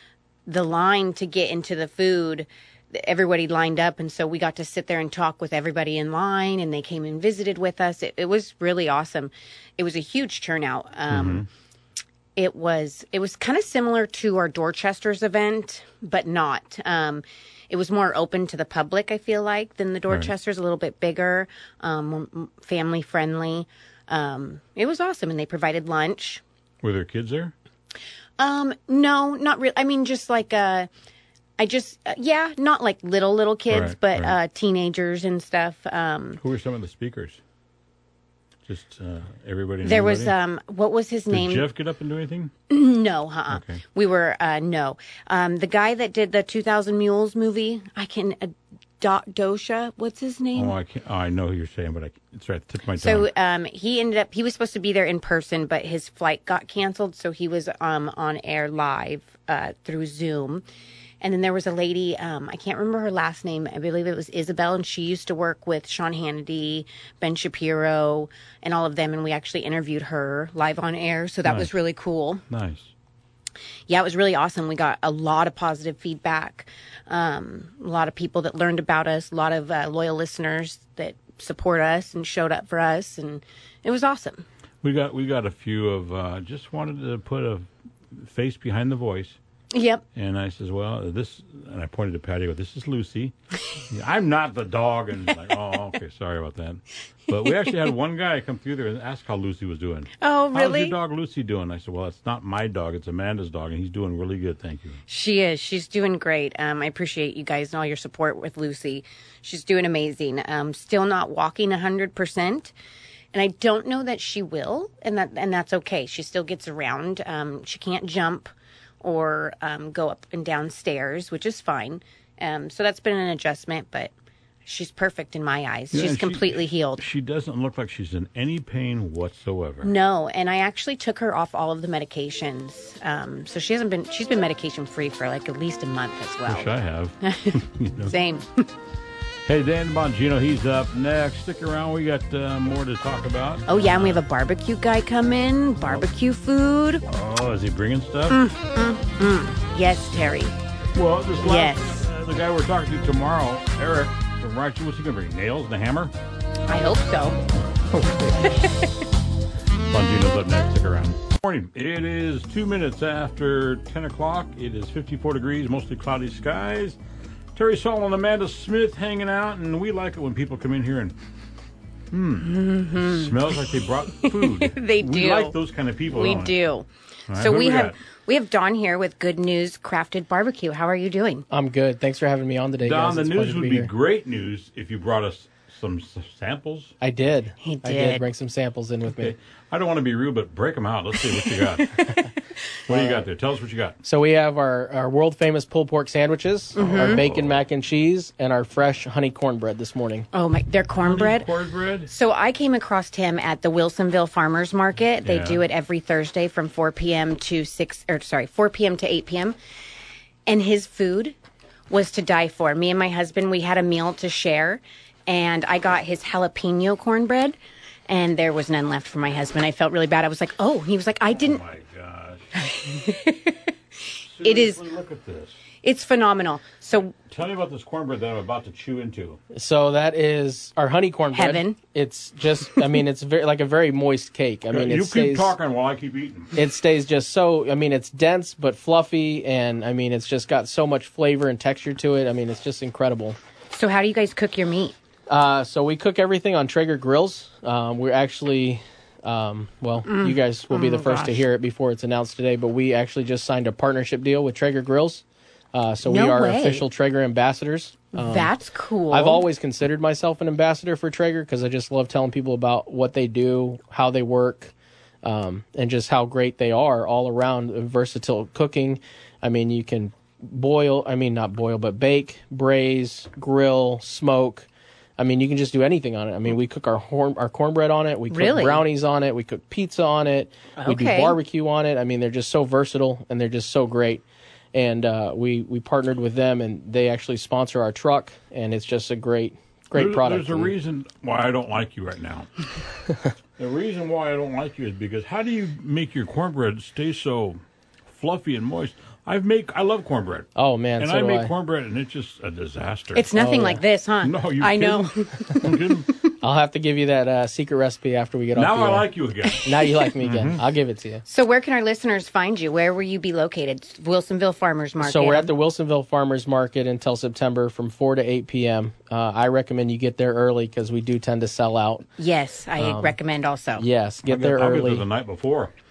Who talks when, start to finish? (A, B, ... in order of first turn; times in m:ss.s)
0:00.5-0:11.5 A
0:11.1-0:11.5 B
0:12.4-0:26.4 A
0:26.8-0:27.5 B
0:28.4-0:30.9 A
0:31.6-0:36.4 A
0:33.7-0:34.4 B
0:36.4-0:37.4 B
0:38.7-0:40.4 B
0:39.8-0:41.7 A
0:41.3-0:42.5 B
0:42.7-0:50.8 A
0:43.5-0:43.8 B
0:50.6-0:53.3 B
0:53.0-1:00.6 A
1:01.2-1:12.4 A
1:11.4-1:11.7 B
1:12.5-1:12.9 B
1:13.9-1:24.4 A
1:24.8-1:29.4 B
1:29.7-1:30.0 A
1:30.1-1:45.0 B
1:40.2-1:41.0 A
1:45.1-1:52.7 A
1:53.3-2:04.1 A
2:04.6-2:07.0 A
2:05.9-2:09.9 B
2:09.8-2:16.7 A
2:16.5-2:18.1 B
2:17.2-2:18.7 A
2:19.5-2:24.2 B
2:23.7-2:27.0 A
2:27.1-2:28.4 B
2:28.3-2:30.6 A
2:30.9-2:36.1 B
2:31.4-2:32.1 A
2:36.7-2:37.4 A
2:37.9-2:38.4 B
2:38.4-2:38.9 A
2:39.9-2:47.0 B
2:47.6-2:51.2 B
2:52.1-2:56.6 B
2:52.4-3:01.4 A
2:57.3-2:58.0 B
3:01.5-3:03.9 C
3:02.8-3:06.9 B
3:07.0-3:09.3 C
3:07.6-3:08.2 A
3:09.1-3:12.0 B
3:12.9-3:14.0 B
3:12.9-3:13.2 C
3:14.0-3:20.3 C
3:16.8-3:17.2 A
3:16.9-3:17.6 B
3:20.3-3:21.5 A
3:21.0-3:22.1 B
3:22.0-3:29.6 A
3:25.2-3:25.6 B
3:30.5-3:31.4 A
3:31.9-3:37.6 A
3:38.1-3:41.6 A
3:41.3-3:42.6 B
3:42.6-3:44.8 A
3:44.2-3:45.6 B
3:45.8-3:47.1 A
3:47.3-3:49.4 B
3:49.5-3:55.5 C
3:51.3-3:51.8 A
3:54.7-3:56.6 B
3:56.5-4:03.4 C
4:03.7-4:05.0 A
4:05.3-4:18.5 C
4:10.0-4:11.4 A
4:16.0-4:16.9 A
4:18.2-4:19.4 A
4:19.1-4:50.8 C
4:38.3-4:38.8 A
4:40.8-4:41.4 A
4:49.9-4:52.5 B
4:53.6-5:03.3 B
5:00.6-5:01.5 C
5:03.2-5:06.2 A
5:03.3-5:03.8 C
5:04.2-5:06.1 B
5:06.4-5:11.2 C
5:08.5-5:09.7 B
5:10.2-5:10.6 B
5:11.3-5:15.6 A
5:15.0-5:22.1 C
5:22.2-5:23.9 A
5:22.8-5:23.2 C
5:23.8-5:25.1 C
5:24.2-5:25.7 B